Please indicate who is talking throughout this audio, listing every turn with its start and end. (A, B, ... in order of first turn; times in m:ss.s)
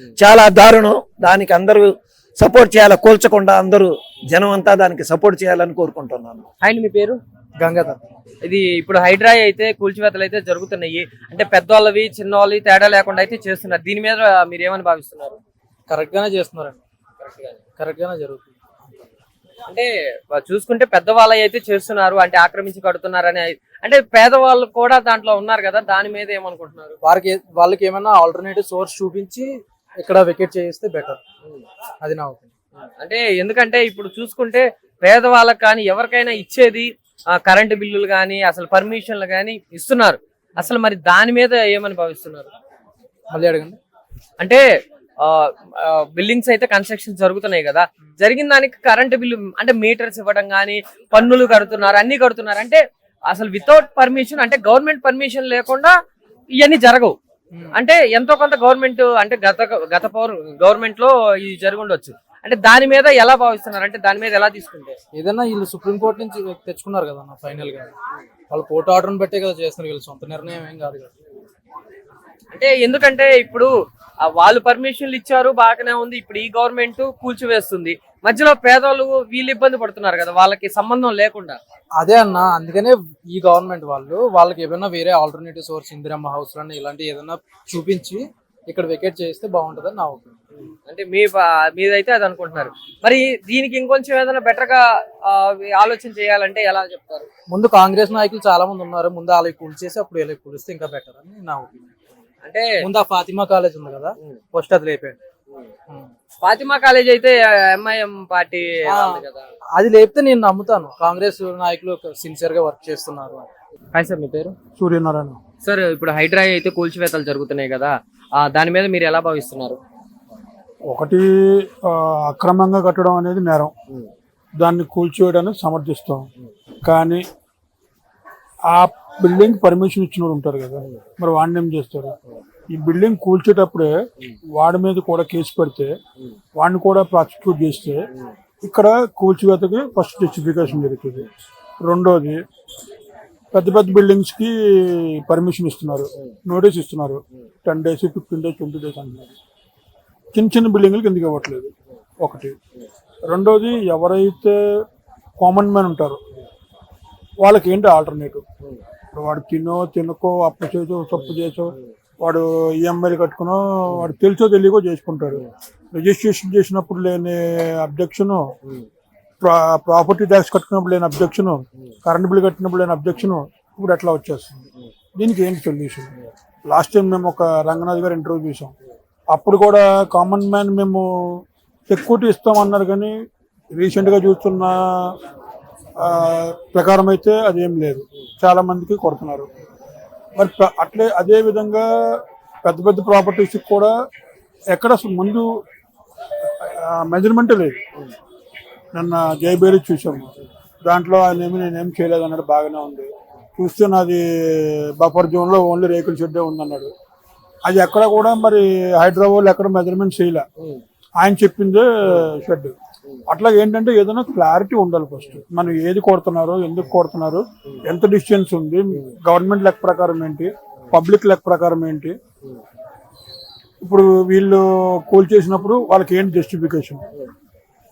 0:00.2-0:01.9 A
0:02.4-0:06.4 A
0:06.6-0:07.2 B
0:07.6-0:08.0 C
0:08.4-0:15.4 B
0:15.9-0:16.8 C
0:17.2-0:17.6 B
0:17.8-0:18.6 C
0:19.7-0:27.0 B
0:27.0-0:31.2 C
0:32.0-0:32.5 C
0:33.0-0:42.5 B
0:43.3-0:43.8 C
0:44.4-0:44.6 B
0:45.2-0:55.9 B
0:56.6-0:57.2 B
0:57.7-1:05.0 B
1:05.1-1:07.9 C
1:08.5-1:11.1 C
1:12.5-1:13.7 B
1:14.2-1:21.6 B
1:22.0-1:30.4 C
1:30.9-1:37.3 B
1:37.5-1:41.9 C
1:42.4-1:42.8 B
1:42.8-1:45.2 C
1:46.4-1:49.5 B
1:48.9-1:49.2 C
1:49.8-1:53.5 C
1:53.9-1:54.5 B
1:54.8-1:55.4 D
1:55.6-1:59.8 B
2:00.9-2:03.7 D
2:04.6-2:06.3 D
2:06.8-2:07.2 D
2:08.7-2:12.1 D
2:12.7-2:13.9 D
2:14.6-2:15.9 D
2:16.6-2:18.0 D
2:18.6-2:21.3 D
2:21.8-2:22.4 D
2:23.5-2:29.3 D
2:30.3-2:32.5 D
2:33.3-2:34.6 D
2:35.4-2:36.2 D
2:37.4-2:38.4 D
2:39.1-2:48.5 D
2:49.4-2:54.6 D
2:55.2-2:56.1 D
2:56.6-2:58.7 D
2:59.3-3:03.1 D
3:03.7-3:05.1 D
3:06.0-3:09.5 D
3:10.4-3:13.9 D
3:14.7-3:15.5 D
3:16.6-3:17.8 D
3:18.9-3:20.3 D
3:20.8-3:26.9 D
3:27.6-3:30.4 D
3:31.2-3:32.7 D
3:33.3-3:42.2 D
3:43.8-3:47.0 D